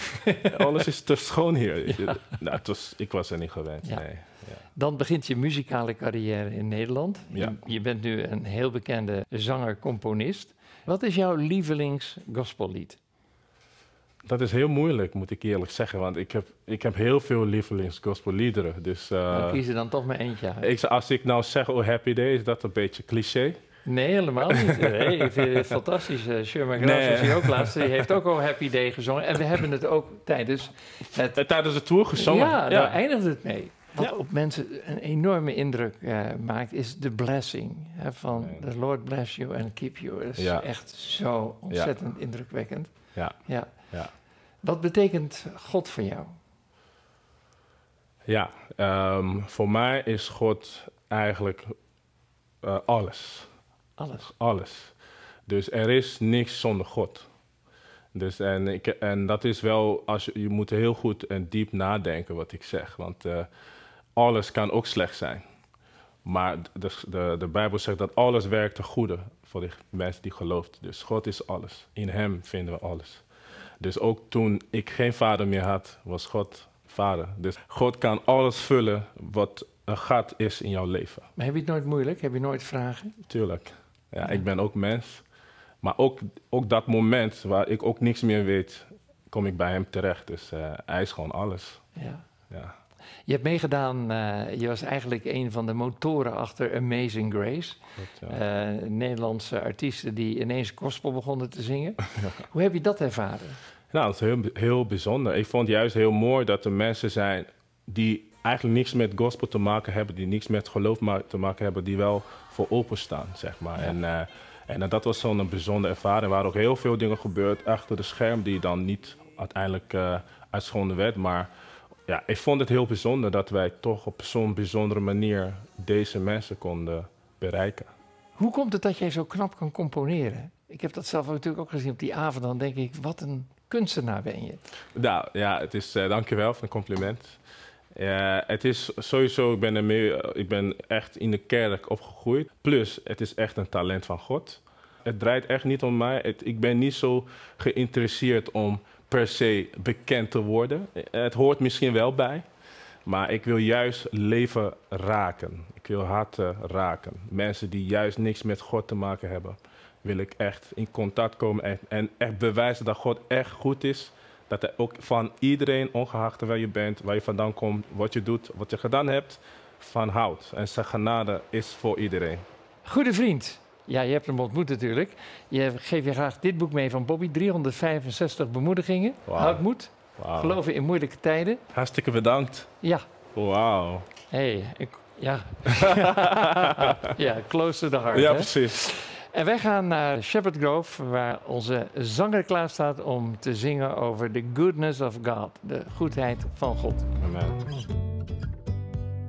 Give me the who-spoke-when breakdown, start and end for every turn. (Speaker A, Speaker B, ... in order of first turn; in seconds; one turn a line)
Speaker A: 0.4-4.6
Speaker B: 1.9-2.2
Speaker B: 4.7-13.0
Speaker A: 14.2-19.6
Speaker B: 19.3-20.7
Speaker A: 20.6-23.6
Speaker B: 23.8-31.4
Speaker A: 24.6-25.2
Speaker A: 26.7-28.1
Speaker A: 31.2-33.0
Speaker B: 32.1-42.9
Speaker A: 38.4-38.6
Speaker A: 40.4-40.7
Speaker B: 43.4-43.7
Speaker B: 44.6-46.4
Speaker A: 48.2-51.7
Speaker A: 52.6-53.5
Speaker B: 54.0-54.3
Speaker A: 54.2-54.9
Speaker A: 55.5-57.3
Speaker A: 58.1-63.5
Speaker A: 64.2-65.4
Speaker A: 66.2-73.2
Speaker A: 73.8-81.2
Speaker B: 81.3-83.2
Speaker A: 83.3-85.2
Speaker A: 85.8-91.8
Speaker B: 92.0-92.2
Speaker A: 92.5-92.8
Speaker B: 93.3-103.6
Speaker A: 98.0-98.4
Speaker A: 103.9-121.5
Speaker A: 122.1-127.9
Speaker B: 128.3-134.6
Speaker A: 134.9-137.4
Speaker A: 137.9-152.4
Speaker A: 153.1-172.4
Speaker B: 172.8-181.6
Speaker A: 179.2-179.6
Speaker A: 180.2-180.6
Speaker A: 181.7-182.7
Speaker A: 183.3-184.1
Speaker B: 184.3-197.1
Speaker A: 188.1-188.8
Speaker A: 197.2-197.6